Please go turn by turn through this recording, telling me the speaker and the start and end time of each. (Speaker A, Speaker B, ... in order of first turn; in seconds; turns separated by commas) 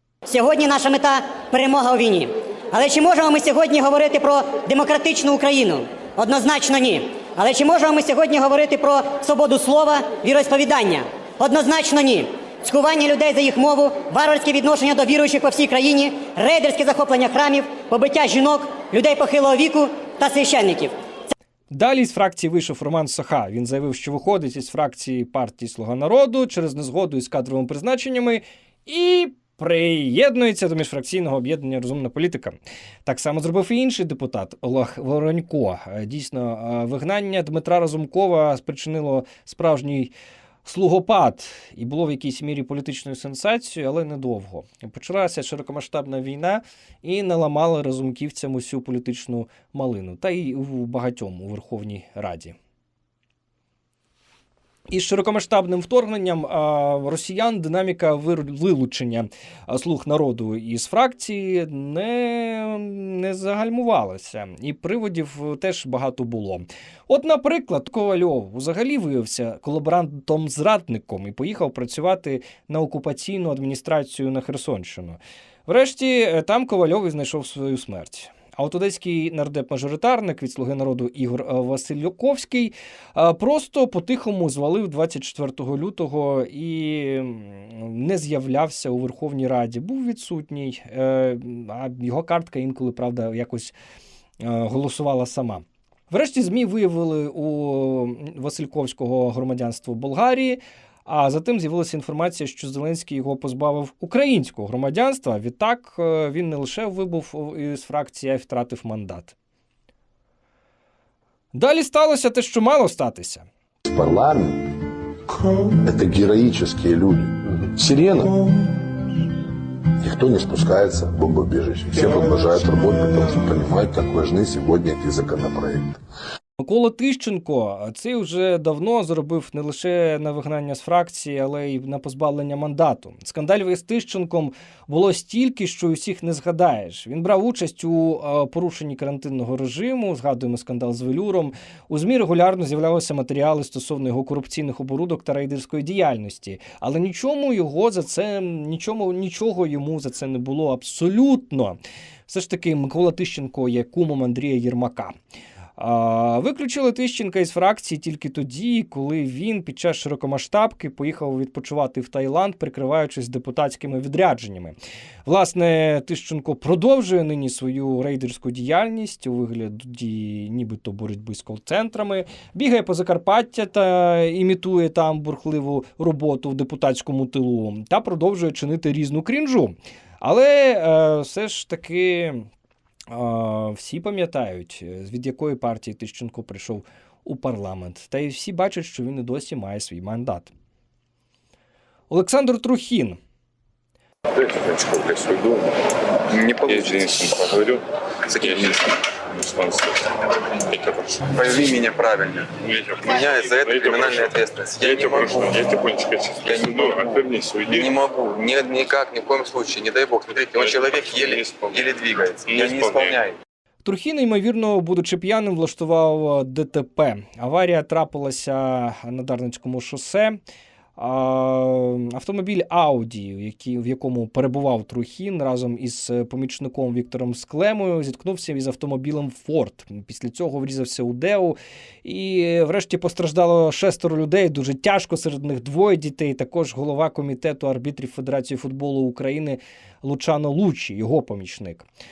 Speaker A: 0.3-20.9, Speaker B: 21.7-40.1, Speaker B: 40.6-52.5, Speaker B: 54.9-93.7, Speaker B: 94.4-109.3, Speaker B: 111.5-113.5, Speaker C: 113.8-114.7, Speaker C: 115.8-118.4, Speaker C: 120.0-126.0, Speaker B: 126.6-155.2, Speaker B: 155.8-182.5, Speaker B: 183.1-190.5, Speaker B: 192.1-193.2, Speaker D: 194.3-195.8, Speaker E: 196.3-197.4, Speaker D: 196.6-197.8, Speaker E: 198.3-198.7, Speaker D: 198.3-200.0, Speaker D: 200.6-201.2, Speaker E: 201.3-205.6, Speaker D: 202.6-207.9, Speaker E: 206.4-213.3, Speaker D: 210.6-213.3, Speaker B: 213.8-220.4, Speaker B: 221.0-241.9